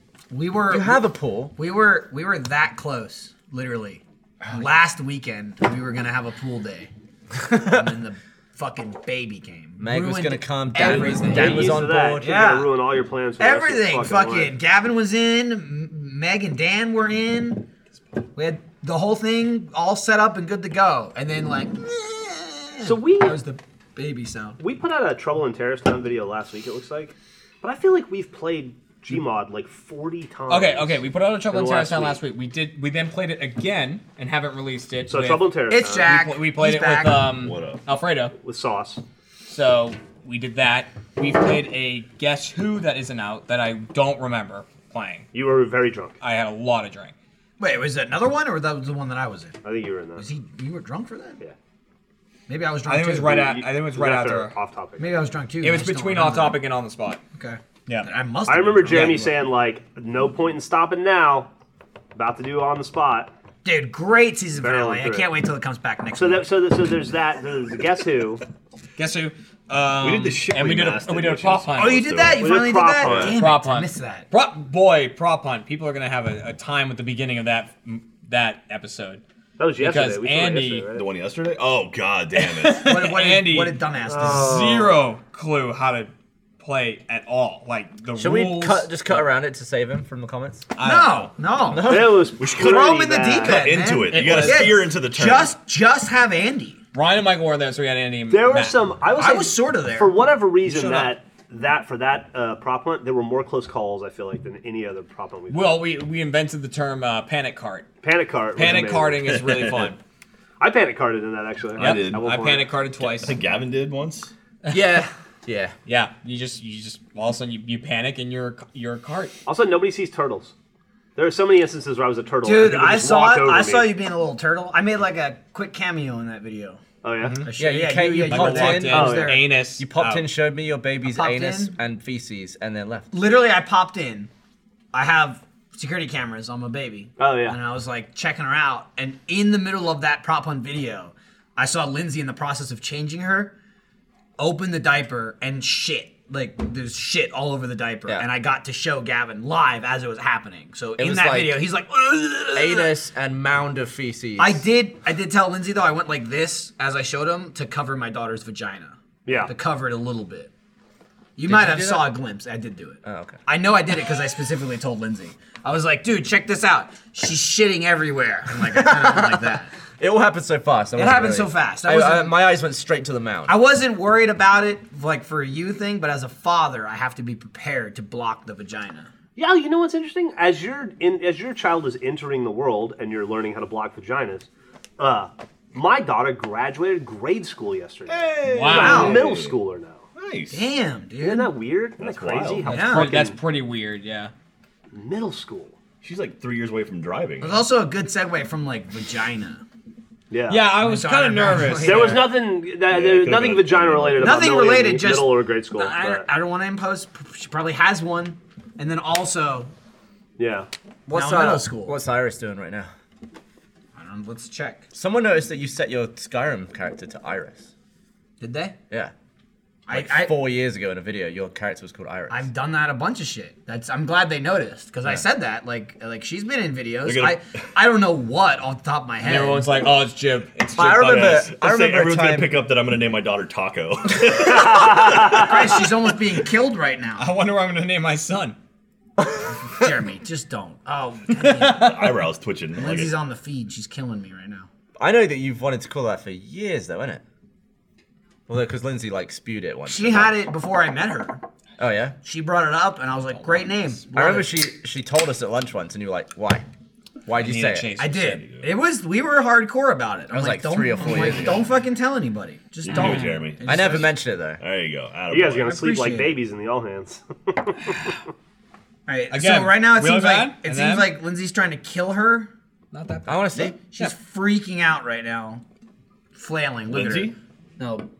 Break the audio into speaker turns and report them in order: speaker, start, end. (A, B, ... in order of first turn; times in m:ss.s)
0:00.3-0:06.9 A
0:00.7-0:01.6 B
0:07.5-0:12.7 A
0:09.8-0:12.3 B
0:10.8-0:14.5 C
0:13.4-0:17.7 A
0:18.4-0:24.6 A
0:22.8-0:23.4 C
0:24.6-0:32.2 C
0:30.5-0:35.4 D
0:35.0-0:36.1 C
0:35.7-0:37.3 A
0:36.0-0:38.3 D
0:37.3-0:37.8 E
0:38.4-0:39.0 C
0:39.5-0:45.3 D
0:45.3-0:46.2 C
0:46.2-0:47.1 D
0:47.6-0:49.6 A
0:49.6-0:50.2 C
0:50.2-0:51.4 A
0:52.5-0:53.5 A
0:52.8-0:54.6 D
0:53.2-0:55.3 C
0:55.0-0:56.6 A
0:55.6-0:57.2 D
0:57.3-0:59.3 A
0:58.5-1:01.5 C
0:58.9-0:59.2 D
1:02.1-1:03.3 C
1:03.6-1:06.5 A
1:04.6-1:05.3 C
1:06.2-1:08.4 C
1:09.0-1:12.1 D
1:10.0-1:13.4 E
1:11.7-1:14.3 A
1:12.4-1:13.4 C
1:13.3-1:19.2 D
1:19.6-1:21.0 C
1:19.8-1:20.9 D
1:20.9-1:22.9 E
1:22.4-1:28.9 D
1:22.8-1:24.6 A
1:24.1-1:25.0 C
1:28.2-1:30.7 B
1:30.8-1:31.3 D
1:30.8-1:36.8 A
1:31.7-1:32.3 B
1:31.8-1:33.6 C
1:32.4-1:35.5 E
1:34.1-1:34.8 D
1:36.9-1:38.8 D
1:38.3-1:45.9 C
1:39.2-1:40.2 A
1:40.6-1:41.1 D
1:45.5-1:47.9 D
1:48.0-1:49.3 C
1:48.5-1:50.0 D
1:49.3-1:49.9 E
1:50.6-1:52.8 C
1:51.8-1:52.3 E
1:51.8-1:53.4 D
1:53.0-1:54.3 E
1:54.6-1:55.0 D
1:54.7-1:55.7 B
1:55.8-1:59.4 D
1:59.4-2:00.5 C
2:01.2-2:03.9 C
2:02.4-2:06.8 A
2:07.0-2:07.4 C
2:07.2-2:07.5 D
2:07.4-2:09.4 A
2:07.6-2:13.1 B
2:08.2-2:10.3 D
2:08.9-2:09.5 C
2:11.1-2:11.7 A
2:13.1-2:14.3 A
2:14.9-2:23.5 A
2:17.2-2:17.6 C
2:24.4-2:32.9 A
2:31.0-2:31.6 B
2:32.5-2:34.6 B
2:34.4-2:40.5 A
2:39.2-2:39.5 C
2:41.4-2:49.7 A
2:41.5-2:42.1 B
2:43.0-2:43.4 B
2:48.6-2:53.5 B
2:51.0-2:52.4 A
2:53.5-2:59.1 A
2:59.4-3:10.0 C
3:08.1-3:09.6 E
3:08.4-3:09.2 D
3:08.7-3:09.2 A
3:10.1-3:10.7 E
3:10.5-3:11.5 A
3:11.2-3:13.4 C
3:12.0-3:12.7 E
3:12.7-3:13.1 A
3:12.7-3:14.3 D
3:14.9-3:15.8 C
3:16.0-3:17.7 E
3:17.4-3:19.6 A
3:20.3-3:20.7 C
3:20.5-3:22.3 D
3:20.8-3:22.3 A
3:21.8-3:26.3 C
3:22.9-3:24.5 E
3:24.2-3:29.7 A
3:30.4-3:30.7 C
3:31.1-3:32.0 A
3:31.1-3:32.9 B
3:34.0-3:34.8 A
3:34.9-3:37.7 B
3:38.4-3:38.7 A
3:39.9-3:40.3 A
3:39.9-3:42.5 B
3:42.3-3:49.8 A
3:47.0-3:47.4 E
3:49.2-3:51.5 D
3:50.7-3:52.6 B
3:51.0-3:55.8 E
3:54.4-3:55.6 C
3:55.3-3:57.3 A
3:57.2-3:58.6 D
3:59.8-4:02.1 A
4:01.7-4:03.1 E
4:02.7-4:04.7 A
4:05.0-4:07.2 B
4:08.5-4:10.4 B
4:09.8-4:11.4 A
4:11.8-4:12.2 B
4:12.2-4:14.5 A
4:13.4-4:13.7 D
4:14.1-4:16.6 B
4:17.2-4:18.2 B
4:17.3-4:18.4 D
4:18.0-4:24.2 A
4:18.2-4:18.7 E
4:20.3-4:21.7 B
4:21.2-4:21.6 E
4:22.8-4:24.0 E
4:22.9-4:23.2 D
4:23.6-4:24.6 B
4:24.6-4:25.9 E
4:25.3-4:28.1 C
4:25.6-4:26.4 A
4:29.1-4:32.5 A
4:29.3-4:31.1 D
4:32.9-4:34.1 D
4:33.3-4:33.8 B
4:33.8-4:35.6 A
4:36.3-4:38.1 A
4:36.9-4:37.4 E